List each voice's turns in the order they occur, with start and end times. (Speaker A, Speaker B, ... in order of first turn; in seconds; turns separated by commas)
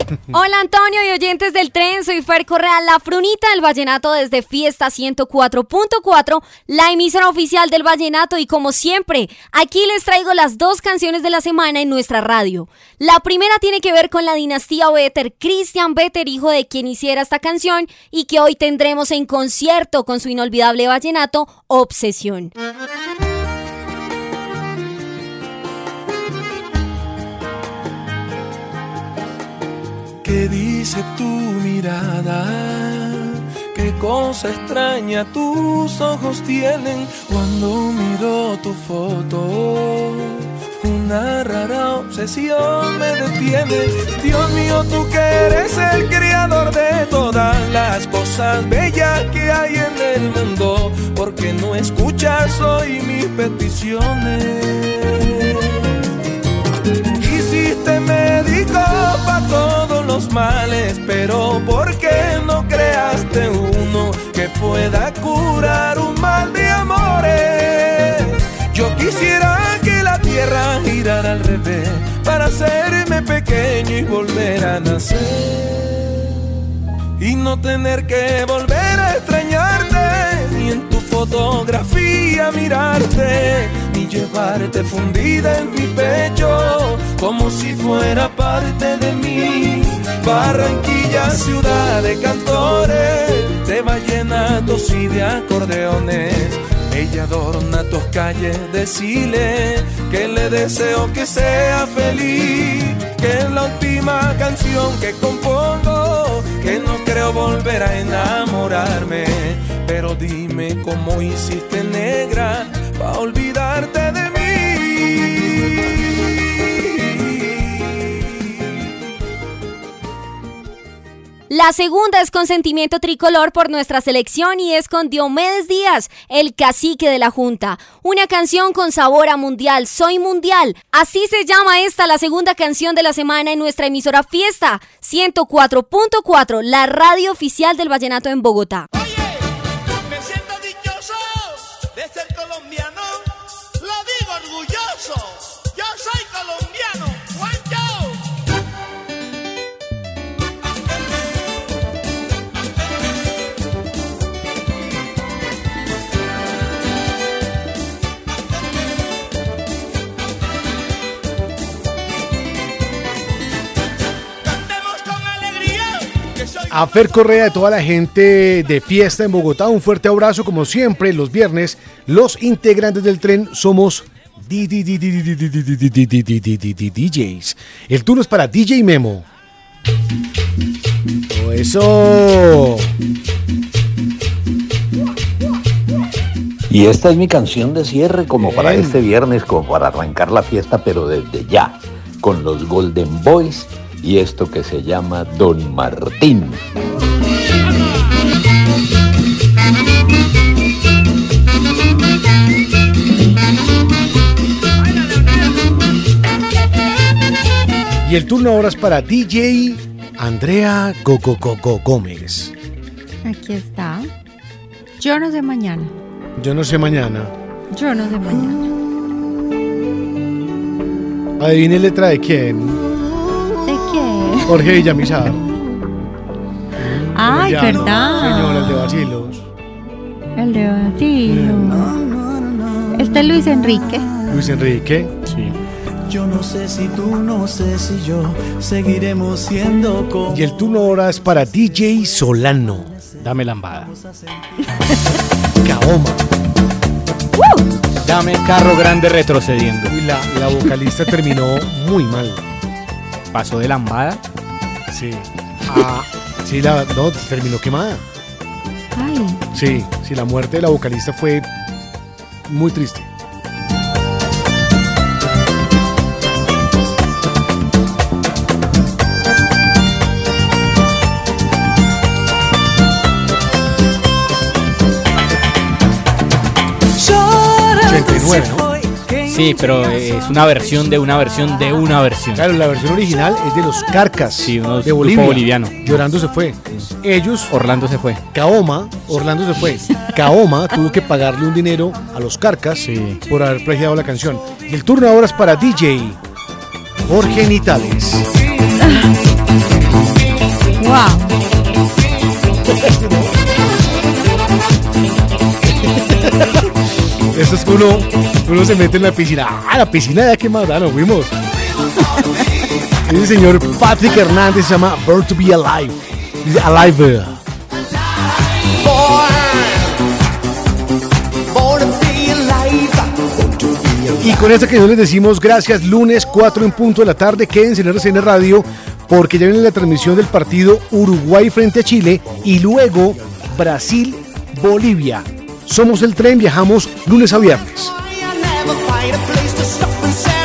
Speaker A: 0.3-22.5, Speaker B: 30.2-56.0, Speaker B: 57.1-76.4, Speaker B: 77.2-116.1, Speaker B: 116.6-118.2, Speaker A: 121.5-138.9, Speaker C: 140.3-141.0, Speaker C: 143.9-145.1, Speaker C: 145.7-147.8, Speaker D: 166.7-179.2, Speaker D: 181.3-182.9, Speaker E: 186.7-196.6, Speaker D: 188.4-189.0, Speaker D: 208.0-212.5, Speaker F: 213.2-214.1, Speaker F: 215.0-215.9, Speaker D: 216.4-217.3, Speaker F: 217.7-218.7, Speaker D: 221.4-222.8, Speaker F: 223.7-224.7, Speaker D: 224.4-225.4, Speaker D: 226.8-229.5, Speaker F: 227.1-229.0, Speaker F: 230.3-231.9, Speaker D: 231.2-231.9, Speaker F: 232.9-234.1, Speaker D: 234.3-235.1, Speaker G: 235.3-235.6, Speaker H: 236.1-240.3, Speaker D: 240.3-243.0, Speaker G: 243.2-243.9, Speaker D: 245.6-246.2, Speaker F: 247.3-247.6, Speaker G: 248.0-250.0, Speaker D: 249.9-252.4, Speaker G: 253.3-254.2, Speaker D: 254.9-258.0, Speaker F: 258.9-259.4, Speaker D: 259.5-261.5, Speaker D: 262.5-263.1, Speaker H: 277.0-279.5, Speaker D: 277.8-278.7, Speaker G: 279.2-282.5, Speaker D: 282.3-287.5, Speaker G: 284.4-286.0, Speaker G: 287.5-288.2, Speaker D: 288.3-296.2, Speaker G: 292.8-293.2, Speaker D: 297.0-298.3, Speaker F: 298.8-299.1, Speaker F: 300.8-301.4, Speaker D: 302.7-303.2, Speaker D: 305.8-306.6, Speaker D: 307.3-311.3, Speaker D: 313.0-317.4, Speaker D: 324.2-338.0